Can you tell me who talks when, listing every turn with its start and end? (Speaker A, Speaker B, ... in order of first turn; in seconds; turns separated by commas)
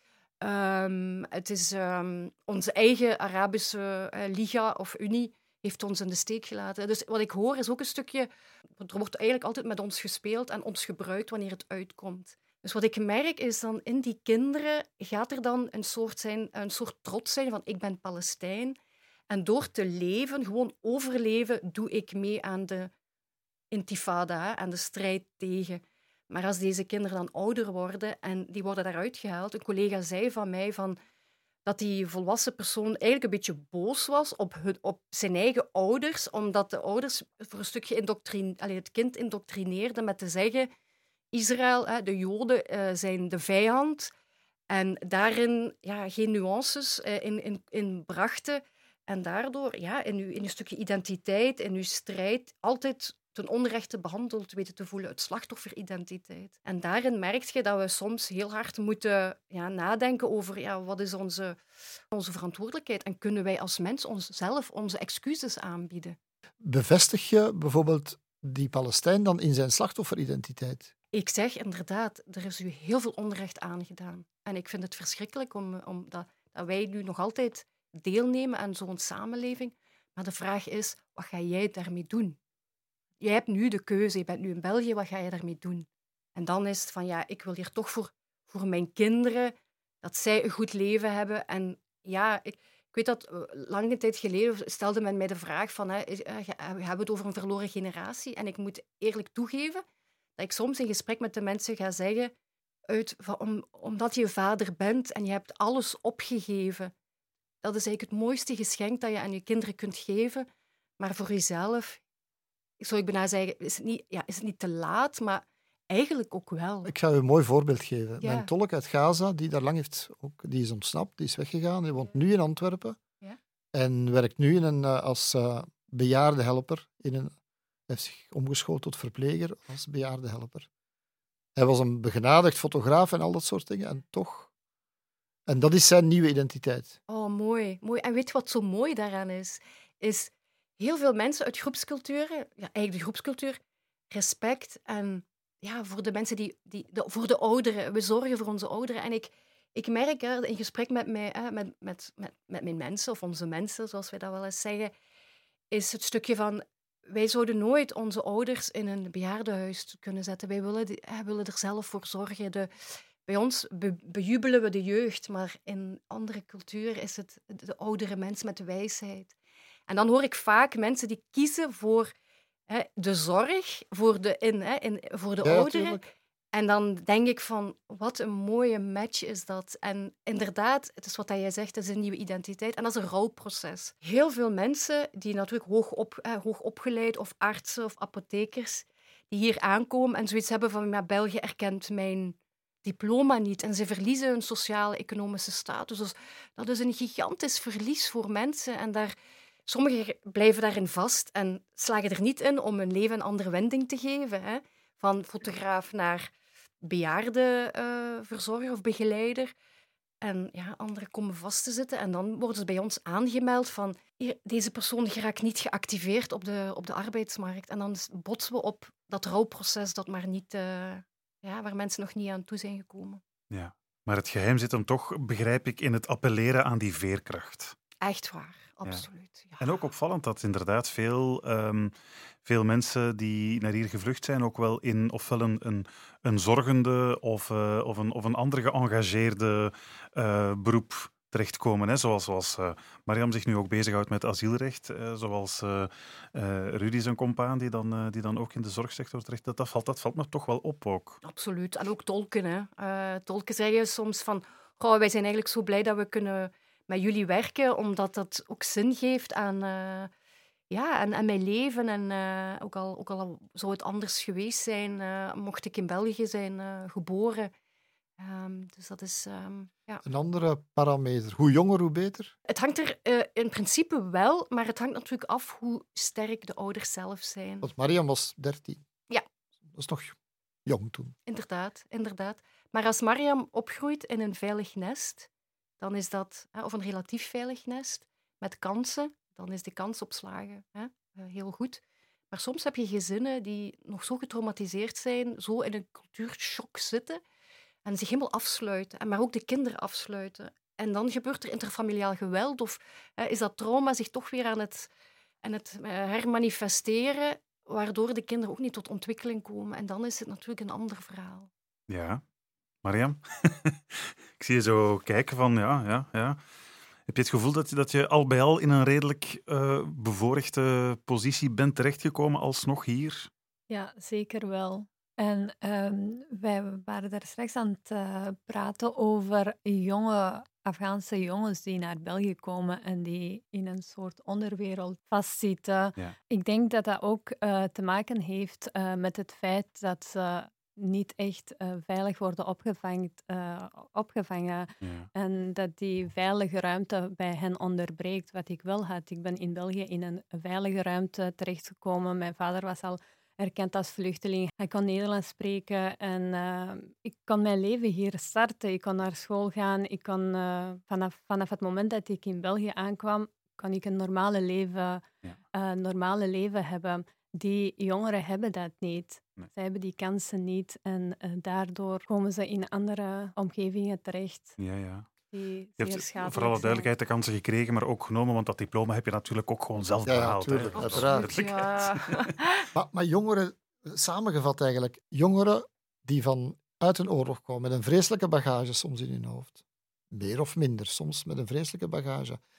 Speaker A: 0.4-18.8, Speaker A: 19.3-22.9, Speaker A: 23.7-31.0, Speaker A: 31.7-40.7, Speaker A: 41.3-44.1, Speaker A: 44.7-61.6, Speaker A: 62.1-66.2, Speaker B: 66.6-70.9, Speaker A: 71.1-82.4, Speaker A: 83.2-99.8, Speaker A: 100.4-102.3, Speaker A: 102.9-106.9, Speaker A: 107.6-110.5, Speaker A: 111.0-112.0, Speaker A: 112.8-116.9, Speaker B: 116.8-123.0, Speaker A: 118.2-118.5, Speaker B: 123.7-127.3, Speaker B: 127.9-130.7, Speaker B: 131.6-134.5, Speaker B: 135.5-137.0, Speaker A: 137.1-143.6, Speaker A: 144.1-154.9, Speaker A: 155.7-162.7, Speaker A: 163.2-169.3, Speaker A: 169.9-172.1, Speaker A: 172.7-176.0, Speaker B: 175.4-176.0, Speaker A: 176.5-199.1, Speaker A: 199.7-206.3, Speaker A: 206.8-209.5, Speaker A: 210.2-223.2, Speaker C: 223.5-227.7, Speaker A: 228.0-229.8, Speaker C: 229.6-231.9, Speaker C: 232.4-251.2, Speaker A: 251.2-260.1, Speaker A: 260.7-267.5, Speaker A: 268.2-270.0, Speaker B: 270.0-272.3, Speaker A: 272.5-277.7, Speaker B: 277.6-278.8, Speaker B: 279.7-280.1, Speaker B: 280.7-281.1, Speaker A: 281.3-285.3, Speaker A: 285.8-297.2, Speaker A: 297.9-304.9, Speaker A: 305.4-311.5, Speaker C: 311.9-312.2, Speaker C: 312.8-316.4, Speaker C: 317.1-323.3, Speaker D: 323.7-374.6, Speaker C: 344.8-345.1, Speaker C: 374.6-375.1, Speaker D: 375.3-376.9, Speaker C: 375.8-382.2, Speaker B: 380.1-381.4, Speaker A: 380.7-382.6, Speaker B: 382.7-389.6, Speaker B: 390.1-392.4